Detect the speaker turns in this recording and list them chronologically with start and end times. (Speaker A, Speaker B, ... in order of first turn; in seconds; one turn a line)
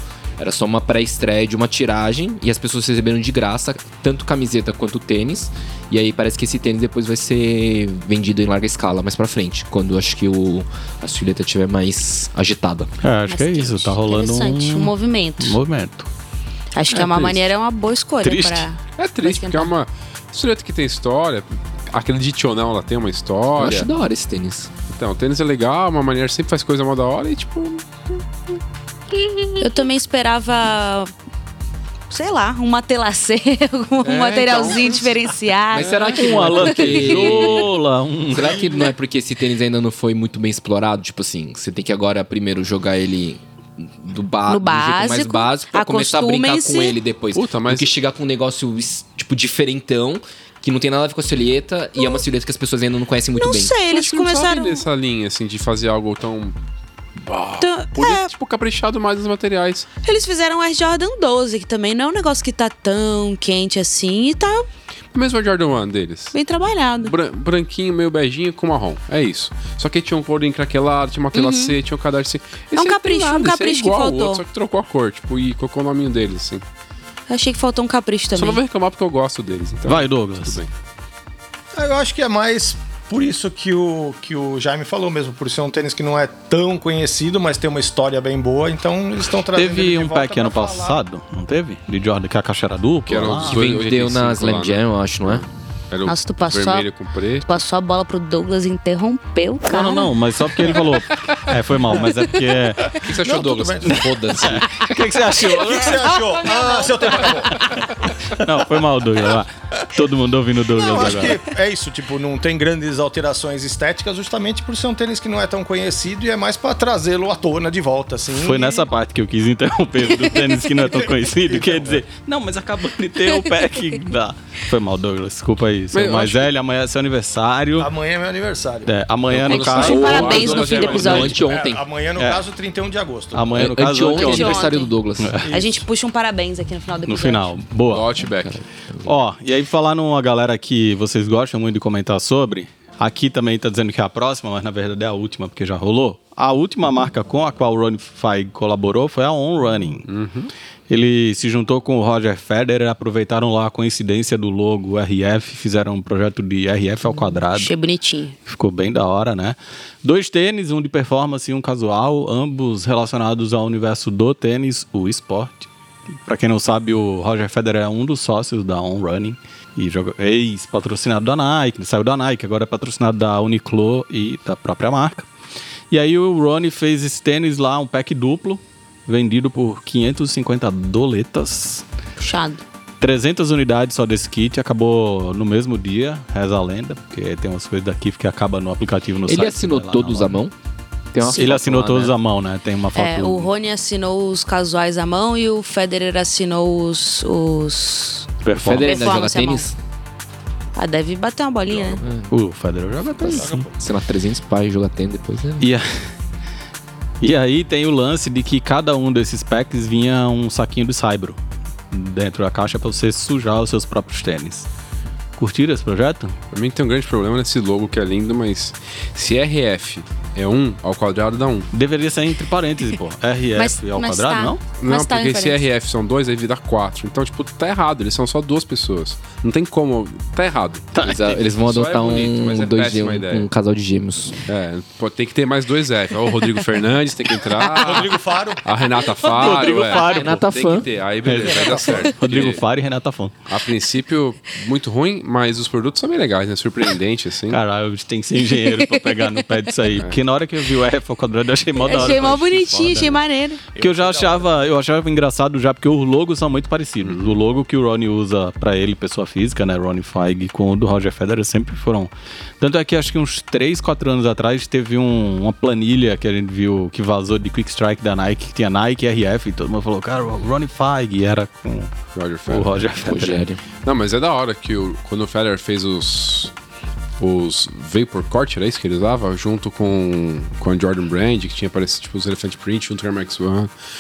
Speaker A: 0.4-12.9
Speaker B: 13.0-16.1
Speaker C: 13.3-15.6
Speaker C: 16.7-19.7
Speaker B: 16.9-17.4
Speaker B: 18.2-18.7
Speaker D: 19.0-23.9
Speaker A: 23.6-24.7
Speaker D: 24.9-28.2
Speaker C: 29.6-31.1
Speaker C: 32.1-35.9
Speaker D: 34.0-35.1
Speaker D: 35.7-36.2
Speaker A: 35.7-37.6
Speaker B: 36.2-38.6
Speaker C: 36.9-37.3
Speaker A: 38.3-53.8
Speaker C: 44.5-47.0
Speaker D: 47.3-47.9
Speaker C: 53.4-54.9
Speaker D: 53.9-56.6
Speaker D: 57.2-59.9
Speaker C: 57.6-58.3
Speaker C: 60.0-64.7
Speaker D: 65.1-66.3
Speaker C: 66.3-67.1
Speaker D: 67.0-76.6
Speaker C: 71.3-71.8
Speaker C: 72.7-74.4
Speaker C: 77.3-78.6
Speaker D: 78.4-80.7
Speaker B: 79.8-80.6
Speaker E: 81.7-91.0
Speaker B: 89.5-93.6
Speaker D: 93.1-97.5
Speaker A: 93.4-95.4
Speaker C: 96.0-96.9
Speaker C: 97.4-100.1
Speaker B: 99.7-103.0
Speaker A: 103.0-104.7
Speaker E: 103.1-104.1
Speaker B: 103.9-106.2
Speaker E: 105.5-107.7
Speaker B: 108.3-111.4
Speaker E: 110.7-118.9
Speaker B: 118.4-127.9
Speaker E: 120.8-122.0
Speaker D: 125.9-126.5
Speaker E: 127.8-128.9
Speaker B: 128.9-131.2
Speaker D: 129.3-131.4
Speaker C: 129.5-131.4
Speaker A: 129.8-131.8
Speaker E: 131.3-133.5
Speaker B: 132.2-132.4
Speaker B: 133.3-135.5
Speaker A: 133.5-135.4
Speaker C: 134.1-134.9
Speaker E: 135.5-135.8
Speaker C: 135.5-137.5
Speaker B: 137.1-138.1
Speaker D: 137.9-138.6
Speaker A: 138.4-139.1
Speaker B: 139.0-150.1
Speaker D: 150.1-150.5
Speaker B: 150.9-157.8
Speaker C: 157.4-158.4
Speaker B: 158.5-165.7
Speaker B: 166.3-175.3
Speaker B: 175.9-181.8
Speaker C: 182.2-182.6
Speaker B: 183.0-190.4
Speaker A: 189.3-190.5
Speaker A: 191.1-192.1
Speaker B: 191.3-193.5
Speaker C: 192.9-199.7
Speaker B: 198.4-199.0
Speaker A: 198.6-199.8
Speaker C: 200.8-202.0
Speaker A: 202.0-202.3
Speaker B: 202.3-203.7
Speaker E: 203.2-203.7
Speaker A: 203.2-205.7
Speaker B: 205.6-206.1
Speaker B: 207.2-211.4
Speaker B: 211.9-214.7
Speaker B: 215.4-216.4
Speaker D: 216.5-221.7
Speaker B: 221.7-224.6
Speaker C: 223.5-225.6
Speaker D: 224.8-233.5
Speaker B: 230.9-231.2
Speaker A: 231.0-234.4
Speaker D: 234.5-242.6
Speaker E: 237.7-238.7
Speaker B: 239.2-240.4
Speaker A: 240.0-240.9
Speaker B: 241.2-243.4
Speaker C: 241.5-242.1
Speaker D: 243.5-247.6
Speaker B: 247.5-253.2
Speaker C: 248.6-249.4
Speaker C: 251.8-253.6
Speaker E: 253.7-254.5
Speaker B: 253.8-271.9
Speaker D: 257.0-257.4
Speaker D: 272.1-272.7
Speaker B: 272.5-273.5
Speaker A: 273.0-273.6
Speaker D: 273.8-276.5
Speaker D: 277.2-283.7